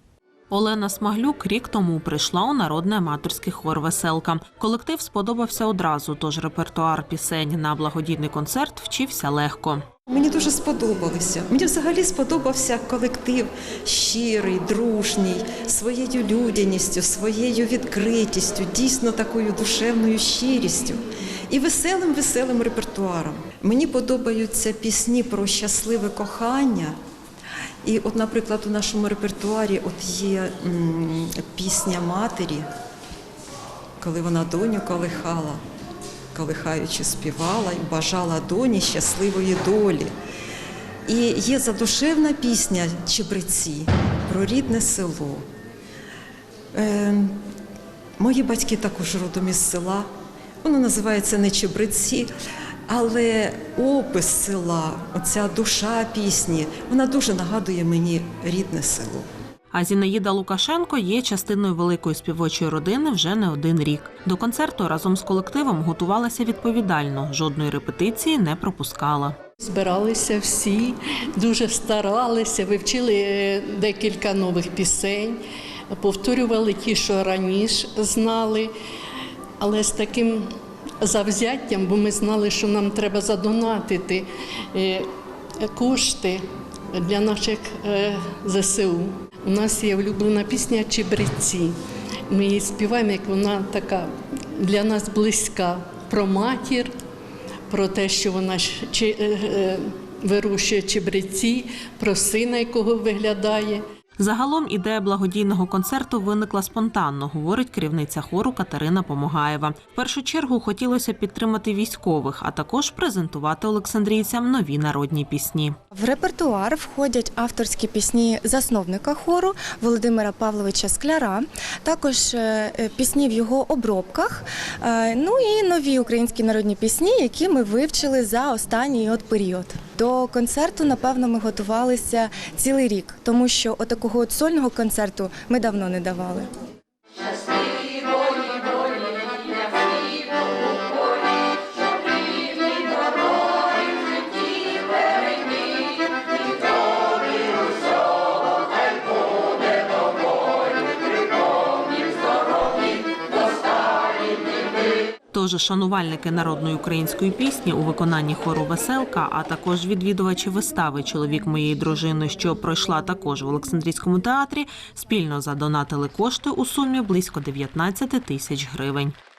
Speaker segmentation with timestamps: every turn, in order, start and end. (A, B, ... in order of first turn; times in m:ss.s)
0:00.5-0:09.8 A
0:10.1-0:27.0 B
0:27.8-0:32.7 B
0:34.0-0:35.6 B
0:36.3-0:40.1 B
0:41.1-0:45.4 B
0:46.7-0:47.3 B
0:48.2-0:50.1 B
0:50.6-0:52.3 B
0:52.9-0:59.3 B
0:59.7-1:09.4 A
1:09.6-1:18.7 C
1:19.6-1:20.5 C
1:21.0-1:25.1 C
1:25.6-1:31.8 C
1:32.3-1:36.9 C
1:37.7-1:43.8 C
1:44.2-1:55.8 A
1:55.9-2:16.5 D
2:35.3-2:49.1 A